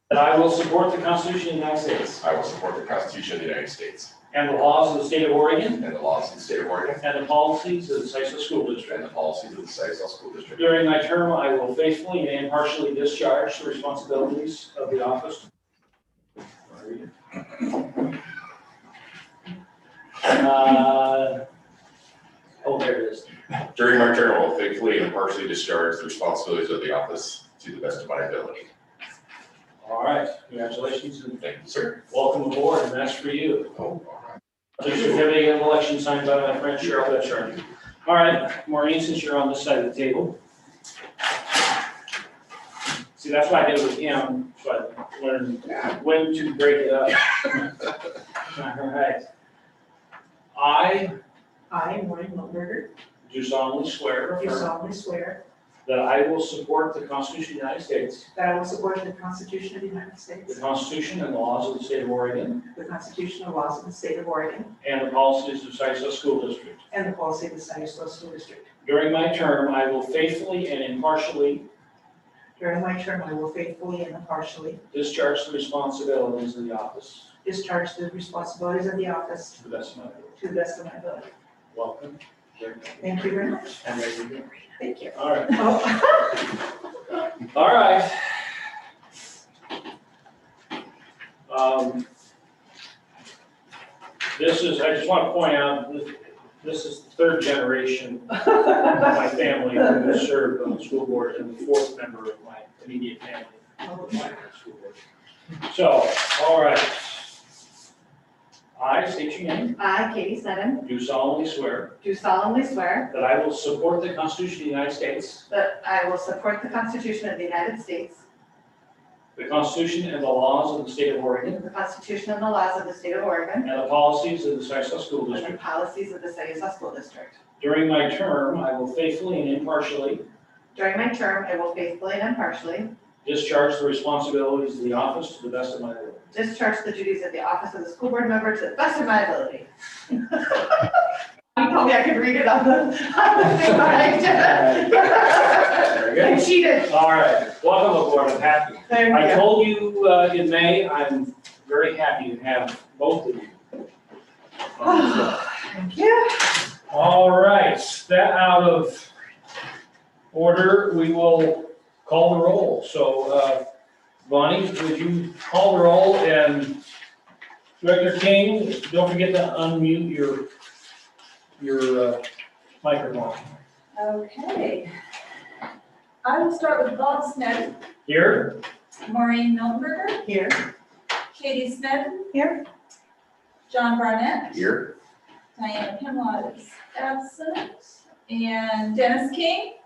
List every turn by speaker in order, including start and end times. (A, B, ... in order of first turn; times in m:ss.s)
0:00.1-0:02.2 A
0:02.2-0:04.1 B
0:04.3-0:05.8 A
0:05.8-0:07.0 B
0:07.0-0:09.1 A
0:08.9-0:10.8 B
0:10.6-0:15.5 A
0:16.7-0:17.1 A
0:20.3-0:21.4 A
0:22.6-0:23.3 A
0:23.6-0:28.7 B
0:29.8-0:31.4 A
0:31.4-0:32.0 B
0:32.1-0:33.7 A
0:33.8-0:34.4 B
0:34.8-0:40.4 A
0:43.2-0:47.7 A
0:48.5-0:49.2 A
0:50.5-0:51.2 A
0:51.7-0:52.9 C
0:53.2-0:54.7 A
0:54.4-0:55.4 C
0:55.8-0:58.3 A
0:58.3-1:00.6 C
1:00.5-1:02.6 A
1:02.7-1:04.7 C
1:04.8-1:06.8 A
1:06.9-1:08.6 C
1:08.8-1:11.7 A
1:12.6-1:14.8 C
1:14.9-1:17.3 A
1:17.4-1:19.6 C
1:19.6-1:20.4 A
1:20.4-1:21.3 C
1:21.7-1:23.2 A
1:23.0-1:23.8 C
1:23.8-1:24.5 A
1:24.8-1:26.0 C
1:25.1-1:26.0 A
1:27.5-1:28.2 A
1:31.5-1:32.0 A
1:34.3-1:45.0 A
1:45.7-1:47.3 A
1:48.8-1:49.8 A
1:49.8-1:50.8 D
1:50.8-1:52.0 A
1:52.0-1:53.1 D
1:53.1-1:55.5 A
1:55.5-1:58.2 D
1:59.4-2:01.6 A
2:01.6-2:03.7 D
2:03.6-2:05.6 A
2:05.3-2:07.4 D
2:07.6-2:10.2 A
2:10.7-2:12.9 D
2:13.2-2:16.3 A
2:16.3-2:20.8 D
2:21.6-2:26.9 D
2:24.5-2:33.6 A
2:28.9-2:29.4 D
2:34.8-2:35.4 A
2:35.7-2:36.6 D
2:36.9-2:39.1 A
2:40.3-2:43.6 A
2:44.2-2:46.8 A
2:47.8-2:50.5 A
2:51.6-2:52.2 A
2:52.8-2:53.5 A
2:53.9-2:54.9 E
2:56.2-2:57.8 E
2:58.1-2:58.6 A
2:59.0-3:00.2 E
3:00.2-3:00.6 C
3:01.3-3:02.3 E
3:02.3-3:02.6 C
3:03.7-3:04.7 E
3:04.6-3:04.9 B
3:05.6-3:09.8 E